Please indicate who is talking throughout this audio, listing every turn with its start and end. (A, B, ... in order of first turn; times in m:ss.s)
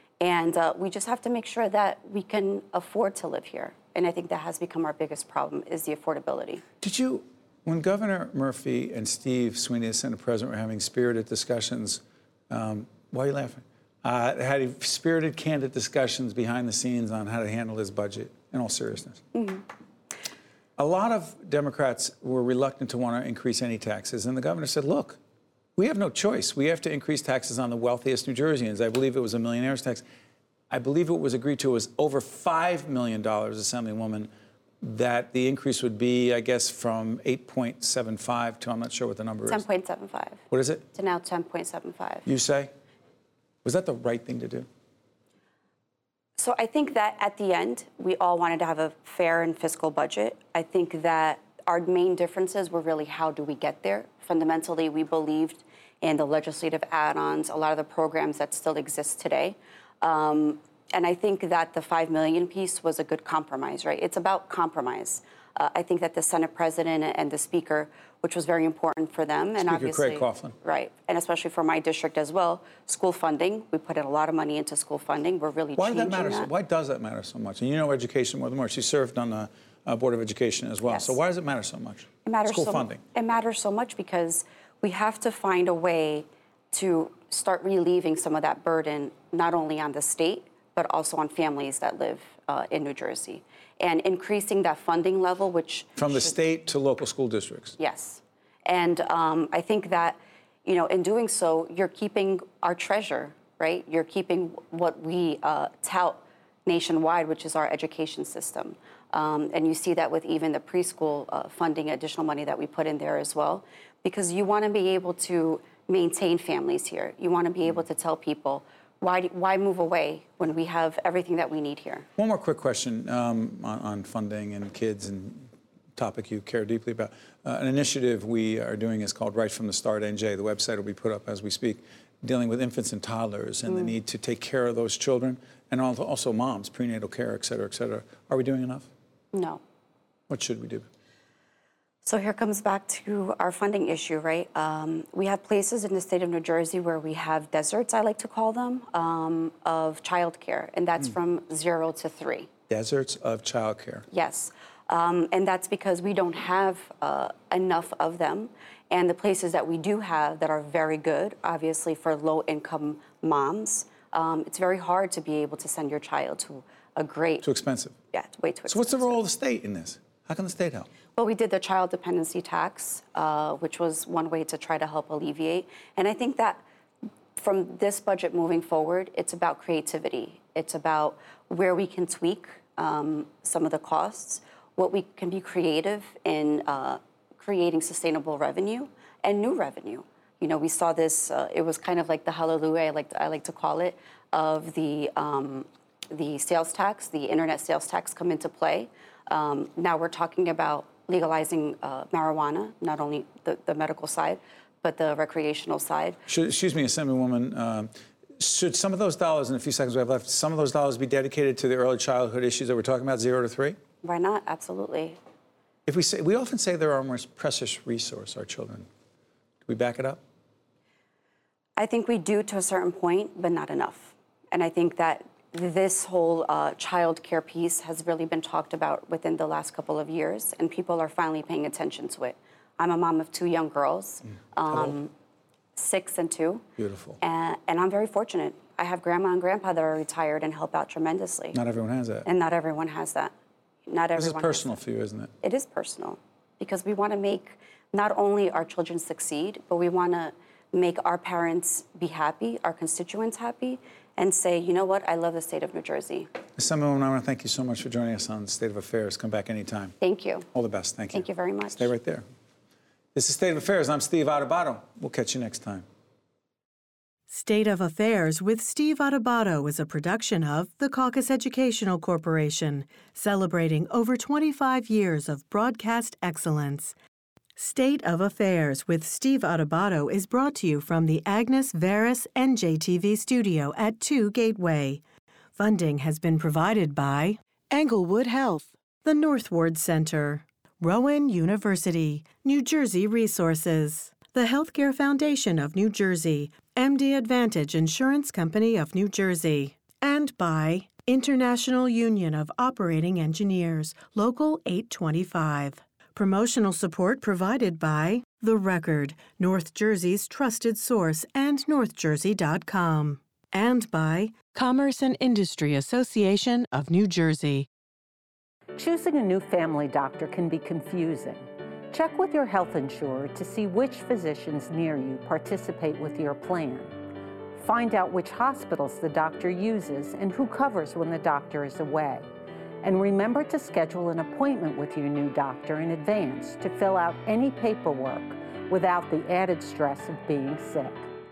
0:00.2-0:06.6 A
0:06.8-0:19.2 B
0:19.3-0:19.6 A
0:20.8-0:25.2 B
0:25.8-0:30.0 B
0:30.7-0:34.3 B
0:34.8-0:39.6 B
0:39.5-0:40.4 A
0:40.5-0:40.8 B
0:40.9-0:42.2 A
0:42.2-0:42.7 B
0:43.6-0:44.7 B
0:46.4-1:16.5 A
1:09.6-1:10.5 B
1:15.8-1:23.0 B
1:20.8-1:21.2 A
1:22.2-1:36.3 A
1:36.0-1:37.8 B
1:37.8-2:02.1 A
2:02.2-2:18.9 B
2:13.7-2:13.9 A
2:19.3-2:19.6 A
2:20.3-2:20.9 B
2:22.0-2:32.5 A
2:32.7-2:34.0 B
2:34.1-2:47.5 A
2:47.4-2:47.9 B
2:48.1-2:49.2 A
2:48.7-2:50.9 B
2:51.2-2:56.6 A
2:57.4-3:26.2 A
3:26.3-3:33.8 B
3:34.0-3:35.2 A
3:35.9-3:38.9 B
3:39.7-3:40.2 B
3:41.8-3:55.1 A
3:54.7-3:55.0 B
3:55.8-3:56.6 A
3:56.8-3:57.2 B
3:57.2-4:01.6 A
4:01.5-4:02.3 B
4:02.2-4:03.3 A
4:03.9-4:04.8 A
4:04.2-4:05.3 B
4:05.4-4:16.3 A
4:16.6-4:20.0 B
4:20.0-4:20.5 A
4:20.5-4:22.2 B
4:21.1-4:21.9 A
4:23.1-4:25.8 B
4:27.3-4:36.9 C
4:37.6-4:45.0 C
4:45.6-5:17.7 C
5:18.8-5:27.0 D
5:27.6-5:32.3 D
5:32.8-5:41.1 D